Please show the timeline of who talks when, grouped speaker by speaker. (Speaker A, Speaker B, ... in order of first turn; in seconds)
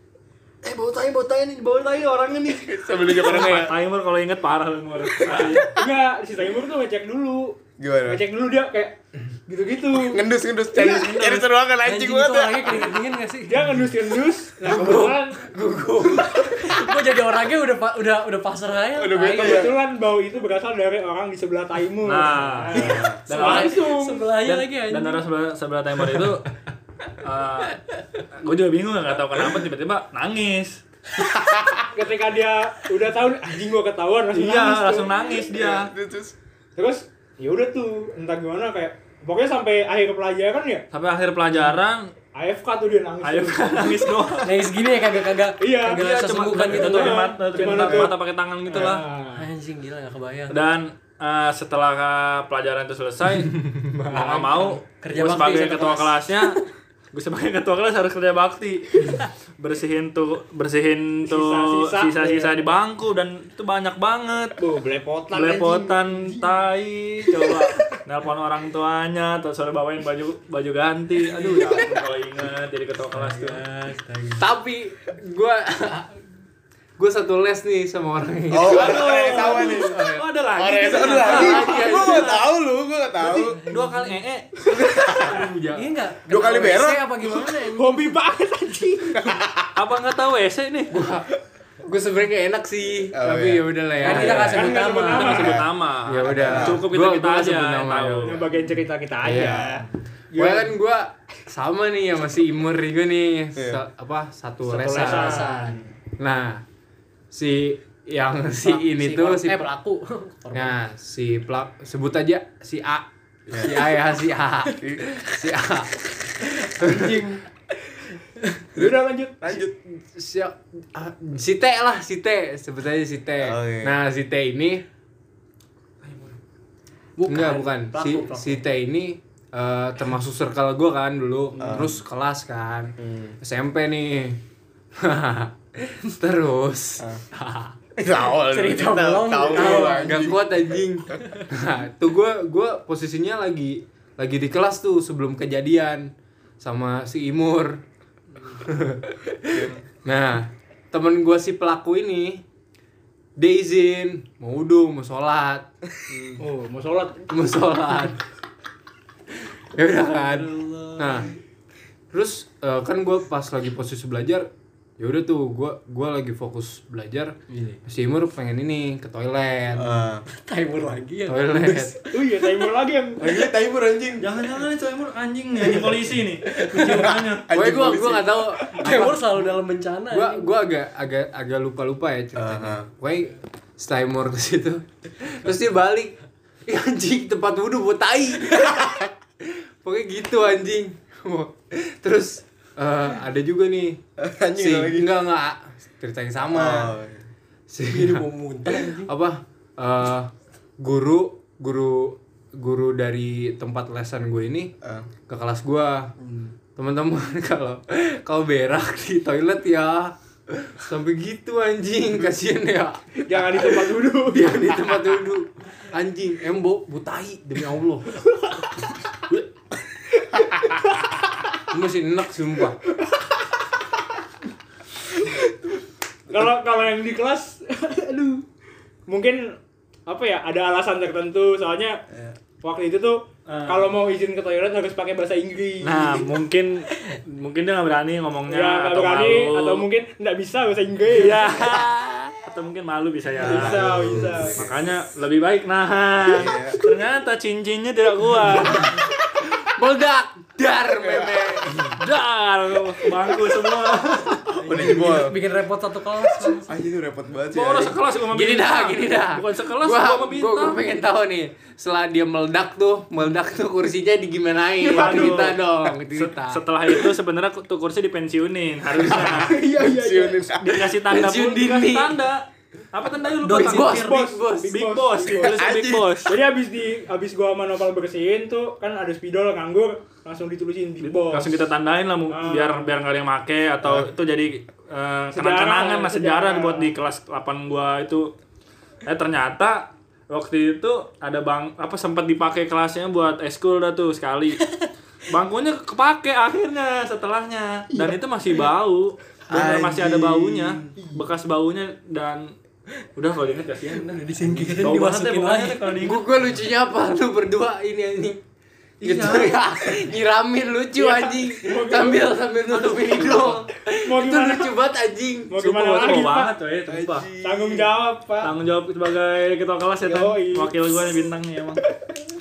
Speaker A: 0.6-5.7, 10.8-11.4, 22.0-26.5, 27.2-27.8, 28.3-30.8, 34.3-35.9, 40.9-42.1, 43.2-44.6, 45.9-49.0, 50.5-56.6, 57.1-64.5, 65.3-73.6, 78.6-82.4, 83.6-84.8, 89.8-90.9, 95.1-98.4, 126.0-126.3, 174.2-177.5, 233.5-233.9, 235.8-239.8, 241.1-243.9, 244.6-248.9, 252.0-254.5, 257.5-260.8, 264.9-269.5, 270.6-276.3, 281.0-288.3, 289.1-294.6, 295.3-302.5, 303.1-306.2, 309.0-309.6, 313.0-313.6, 315.6-317.3, 318.4-321.8
Speaker B: 2.5-3.7, 7.8-8.2, 9.9-13.0, 18.9-19.7, 22.7-23.2, 31.2-31.9, 35.5-36.4, 78.5-83.6, 84.8-85.4, 86.3-87.7, 89.2-89.7, 93.1-94.5, 96.3-96.8, 103.5-103.8, 113.5-113.8, 114.8-115.0, 118.8-119.7, 123.4-124.0, 131.6-132.0, 133.0-133.3, 138.0-141.2, 149.5-149.8, 169.7-170.2, 173.2-174.4, 176.8-178.9, 182.3-182.9, 194.2-195.2, 196.5-197.2, 204.8-205.1, 243.4-244.8, 246.3-246.8, 251.0-251.9, 254.6-255.4, 256.6-258.0, 269.7-270.9, 275.4-276.2, 283.8-284.1, 299.5-300.9, 316.9-317.9
Speaker C: 5.3-10.2, 13.5-15.5, 19.3-24.3, 31.9-35.1, 36.8-40.9, 42.3-44.1, 45.6-49.5, 61.2-62.6, 64.6-66.5, 87.7-89.4, 94.0-95.6, 98.2-100.7, 104.6-105.8, 118.7-119.5, 156.4-157.3, 172.1-173.4, 213.2-214.6, 225.1-225.5, 226.3-228.4, 229.1-232.0, 232.6-236.3, 238.5-241.6, 243.4-244.6, 264.9-265.5, 269.1-270.5, 273.6-275.6, 276.2-281.5, 282.3-282.9, 285.3-286.9, 310.9-312.3, 314.0-314.7, 315.5-316.5, 317.4-318.5, 320.0-320.8
Speaker D: 11.8-13.7, 16.4-19.7, 23.2-25.2, 44.4-47.8, 49.3-50.6, 54.1-56.5, 71.4-71.7, 73.1-74.4, 83.5-84.1, 85.7-88.1, 94.0-95.6, 105.0-105.8, 108.6-110.7, 127.2-128.6, 138.4-140.2, 148.3-148.6, 167.5-167.8, 170.3-172.5, 176.6-177.1, 178.7-180.5, 197.9-199.1, 206.2-206.5, 254.5-256.8, 303.9-306.0
Speaker E: 14.6-16.9, 53.6-54.4, 74.4-76.2, 77.0-80.2, 81.1-82.3, 85.1-85.9, 90.9-91.3, 91.8-94.8, 96.1-98.4, 99.2-105.5, 106.2-106.6, 107.3-109.7, 110.5-117.4, 119.5-124.8, 127.3-134.4, 135.0-137.7, 139.5-147.8, 148.6-152.4, 153.4-155.7, 157.3-158.2, 159.7-161.3, 162.1-170.1, 171.3-172.0, 177.5-179.6, 180.1-186.2, 186.7-194.0, 194.5-196.9, 197.7-204.7, 205.3-206.1, 206.8-218.2, 221.7-222.8, 248.7-251.9, 258.3-266.6, 271.0-272.2, 273.4-274.8, 306.0-308.4, 309.0-315.6